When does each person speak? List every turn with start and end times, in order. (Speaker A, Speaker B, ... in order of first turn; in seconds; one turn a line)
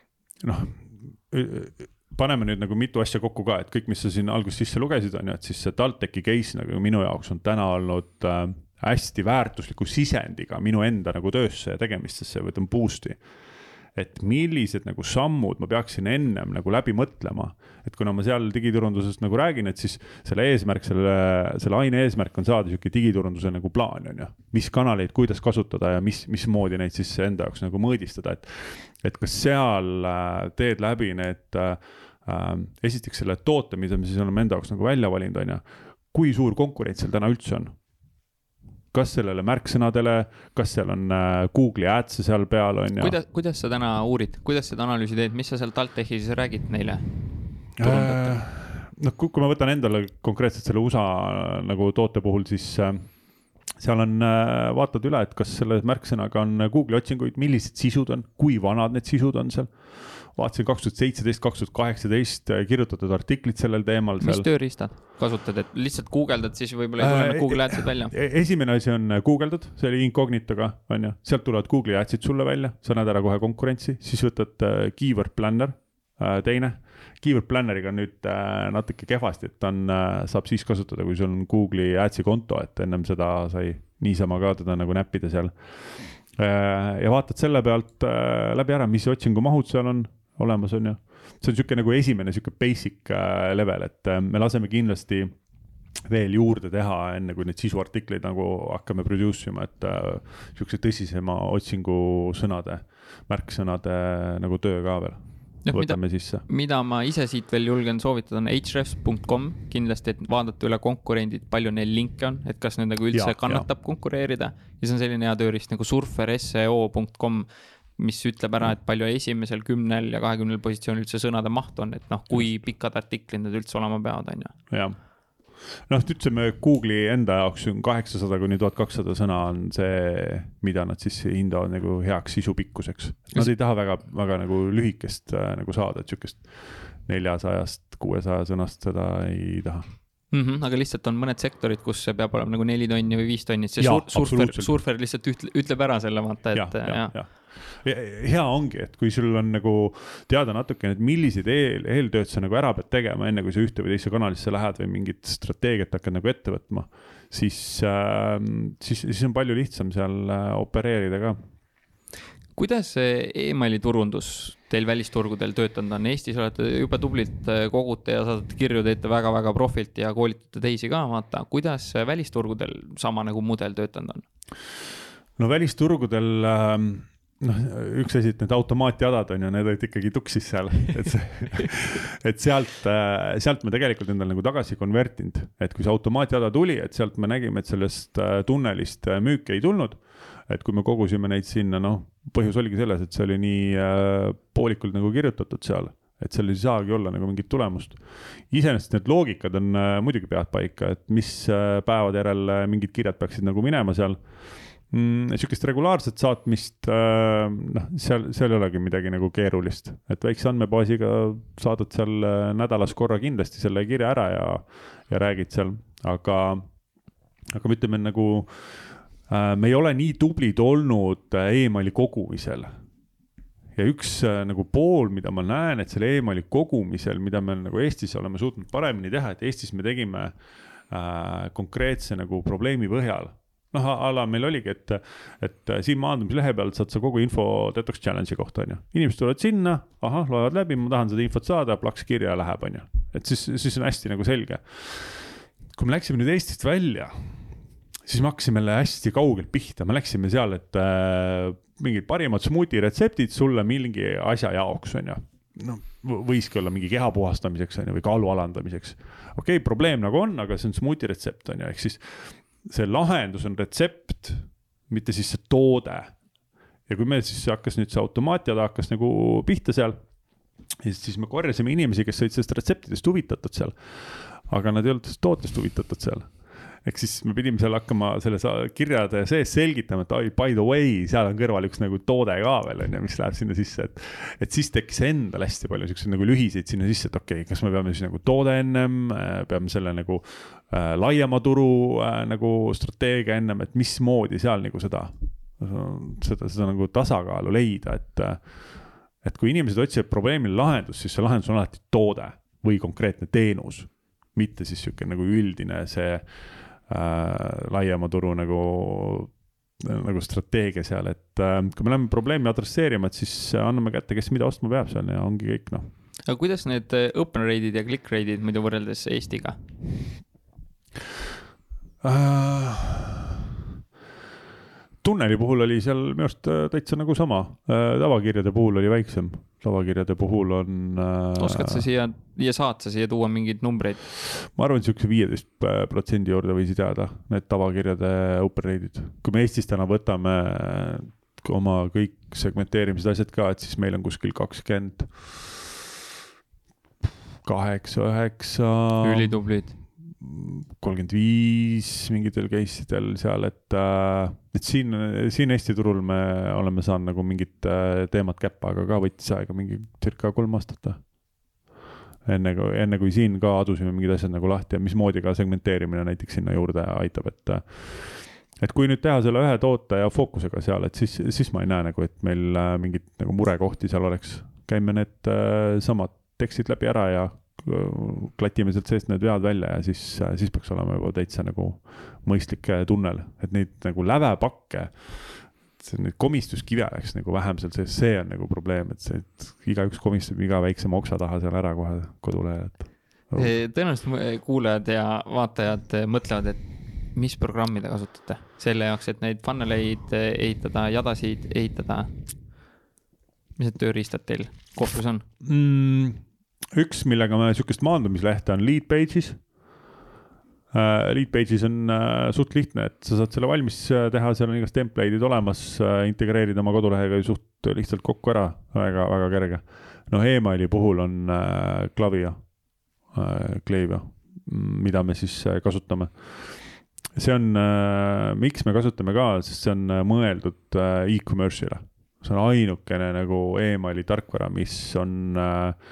Speaker A: 0.4-13.2
Speaker A: 13.9-37.7
Speaker A: 38.9-43.2
Speaker B: 43.0-47.1
Speaker A: 47.8-53.1
Speaker B: 47.8-48.4
Speaker A: 53.8-64.5
Speaker B: 64.2-68.1
Speaker A: 67.0-95.3
Speaker A: 96.1-106.4
Speaker B: 105.7-124.5
Speaker A: 113.1-113.7
Speaker A: 124.7-125.0
Speaker A: 125.7-139.9
Speaker B: 140.3-147.1
Speaker A: 143.8-144.7
Speaker A: 146.5-161.4
Speaker B: 162.6-174.3
Speaker A: 175.4-204.2
Speaker A: 204.9-216.7
Speaker A: 217.5-222.7
Speaker A: 223.8-230.3
Speaker A: 230.9-247.4
Speaker A: 248.1-266.1
Speaker A: 266.9-270.0
Speaker A: 270.8-276.3
Speaker A: 276.8-298.6
Speaker A: 299.2-306.3
Speaker A: 306.8-315.9
Speaker B: 316.3-319.6
Speaker A: 322.0-323.4
Speaker A: 325.0-331.9
Speaker B: 331.4-334.0
Speaker A: 334.2-345.7
Speaker A: 347.4-349.4
Speaker B: 349.0-349.8
Speaker A: 350.2-361.0
Speaker A: 362.2-393.5
Speaker B: 393.4-402.2
Speaker B: 403.6-405.2
Speaker A: 405.4-409.4
Speaker A: 410.7-422.4
Speaker A: 423.1-435.8